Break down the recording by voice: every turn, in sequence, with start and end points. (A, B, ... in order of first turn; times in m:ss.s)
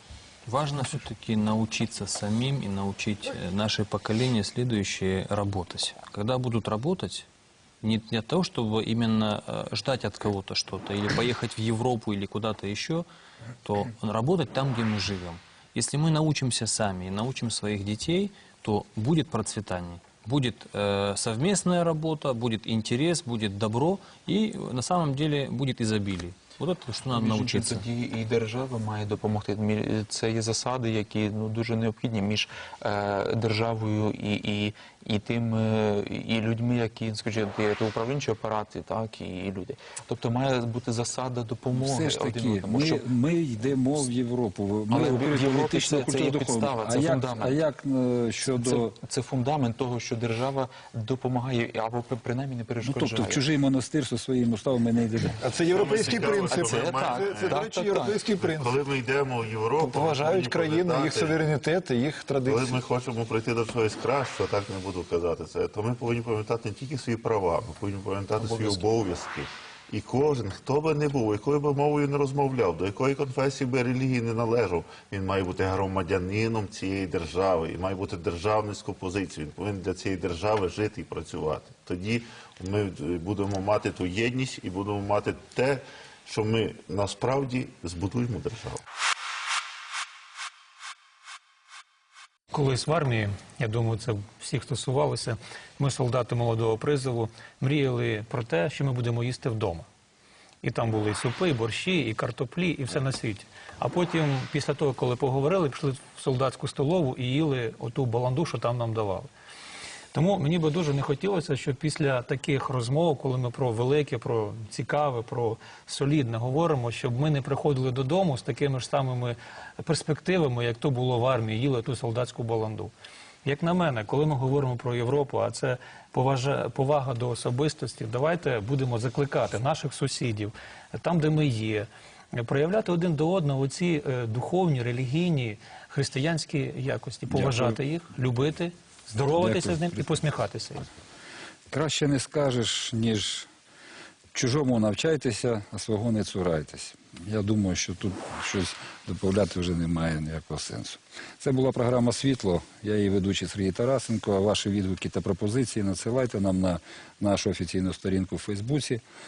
0:00.4-0:07.3 A
0:07.8-0:13.0 A
0:13.6-0:27.8 A
0:27.1-0:43.1 B
0:41.7-0:49.0 C
0:44.9-0:47.6 B
0:48.4-0:53.4 B
0:52.8-0:55.4 C
0:55.4-0:58.8 D
0:55.7-0:57.6 E
0:56.2-0:58.2 B
0:58.4-1:01.4 E
0:59.8-1:02.8 D
1:02.4-1:28.8 E
1:32.5-1:39.8 F
1:40.6-1:49.3 F
1:50.1-2:02.9 F
2:03.4-2:20.8 F
2:17.3-2:17.8 C
2:19.4-2:20.2 C
2:21.7-2:23.5 C
2:24.3-2:39.0 C